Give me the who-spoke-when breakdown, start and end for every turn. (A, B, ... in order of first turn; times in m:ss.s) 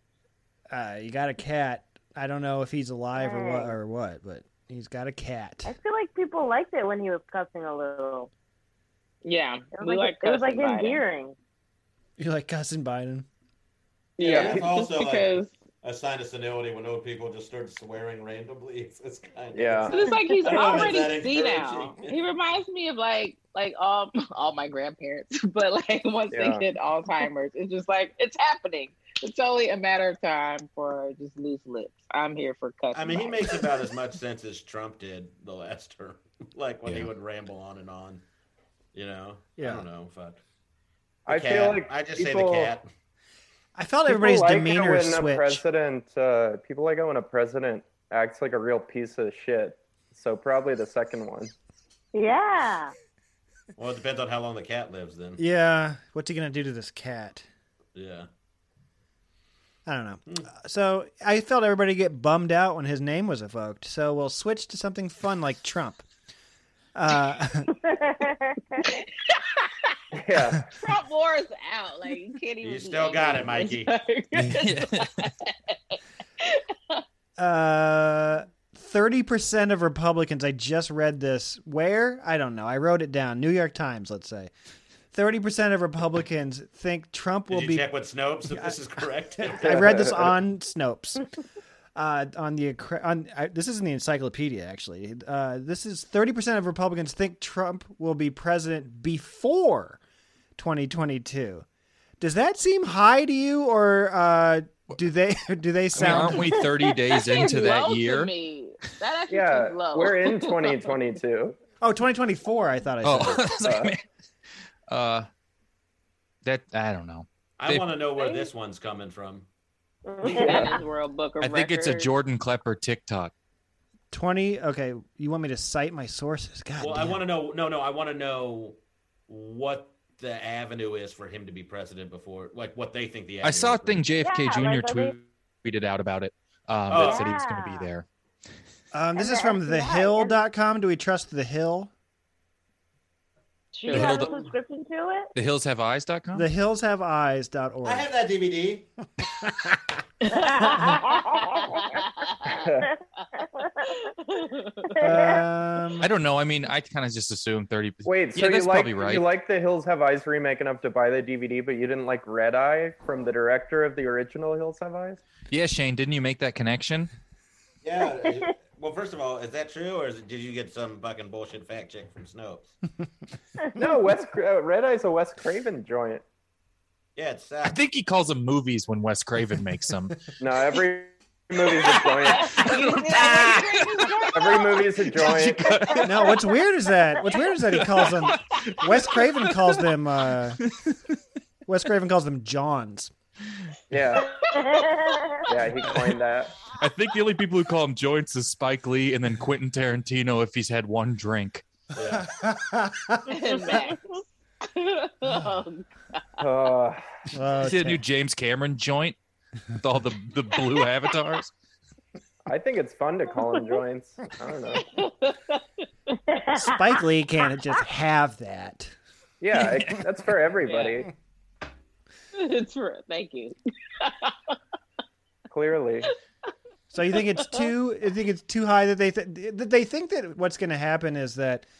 0:00.7-0:05.7 A
0:03.1-0:03.8 B
0:05.6-0:08.3 B
0:09.2-0:11.0 C
0:09.7-0:11.4 B
0:12.2-0:13.3 A
0:14.2-0:15.5 C
0:14.2-0:14.6 D
0:14.2-0:22.2 E
0:19.5-0:20.0 D
0:19.9-0:33.7 C
0:26.3-0:26.6 D
0:32.9-0:38.2 E
0:38.9-0:40.4 E
0:39.6-0:39.8 A
0:41.3-0:42.7 D
0:41.3-0:42.9 E
0:43.7-0:45.6 A
0:44.1-0:51.5 D
0:52.1-0:52.9 B
0:53.8-0:55.4 E
0:55.4-0:57.4 A
0:58.0-0:58.3 E
0:59.8-1:06.0 A
1:06.9-1:07.7 A
1:07.8-1:08.8 B
1:08.8-1:09.9 C
1:10.1-1:10.6 D
1:10.7-1:17.0 C
1:12.6-1:13.9 E
1:14.4-1:15.3 F
1:17.4-1:24.5 A
1:25.1-1:27.9 A
1:27.5-1:30.3 E
1:28.5-1:28.8 A
1:29.4-1:31.2 A
1:32.0-1:40.0 A
1:40.6-1:41.6 A
1:42.2-1:46.6 A
1:45.9-1:48.3 F
1:46.1-1:50.9 C
1:49.3-1:51.6 D
1:51.8-1:53.5 A
1:53.0-1:54.0 F
1:53.6-1:53.9 D
1:54.9-1:55.3 F
1:56.4-1:58.0 F
1:57.6-1:59.4 E
2:00.1-2:00.7 B
2:00.2-2:00.8 E
2:00.2-2:02.1 C
2:00.4-2:00.7 D
2:01.4-2:03.3 F
2:04.1-2:07.2 A
2:06.8-2:08.8 E
2:09.3-2:14.0 E
2:13.4-2:18.0 F
2:14.2-2:15.1 B
2:16.9-2:17.2 E
2:16.9-2:17.9 B
2:18.9-2:21.9 A
2:19.2-2:20.4 B
2:23.7-2:24.4 C
2:23.9-2:25.3 B
2:23.9-2:24.3 F
2:25.3-2:26.5 F
2:26.3-2:28.1 A
2:27.8-2:28.9 E
2:30.3-2:31.8 B
2:30.5-2:32.6 C
2:32.6-2:32.9 D
2:33.6-2:34.0 B
2:34.1-2:35.0 C
2:34.9-2:35.4 B
2:35.0-2:36.1 A
2:36.0-2:39.3 F
2:38.0-2:45.2 D
2:45.5-2:47.1 F
2:47.8-2:52.7 E
2:53.8-2:56.2 D
2:57.2-2:57.8 E
2:57.6-3:00.2 F
3:00.4-3:02.7 D
3:01.9-3:05.0 C
3:02.7-3:03.6 F
3:04.3-3:05.7 D
3:05.1-3:06.3 F
3:06.0-3:10.6 A
3:07.7-3:09.8 F
3:10.6-3:11.0 F
3:11.7-3:13.1 A
3:13.9-3:14.4 D
3:14.5-3:15.4 B
3:15.5-3:16.5 D
3:16.8-3:21.6 F
3:21.9-3:22.3 E
3:22.1-3:23.3 A
3:23.2-3:26.4 C
3:26.4-3:27.0 D
3:27.3-3:28.0 A
3:27.6-3:29.2 F
3:29.8-3:31.5 F
3:32.4-3:34.9 D
3:34.8-3:35.6 C
3:36.3-3:36.6 B
3:36.5-3:38.9 A
3:39.4-3:41.1 D
3:40.6-3:41.0 C
3:42.3-3:44.6 C
3:45.5-3:46.1 D
3:46.9-3:51.6 A
3:47.4-3:47.6 C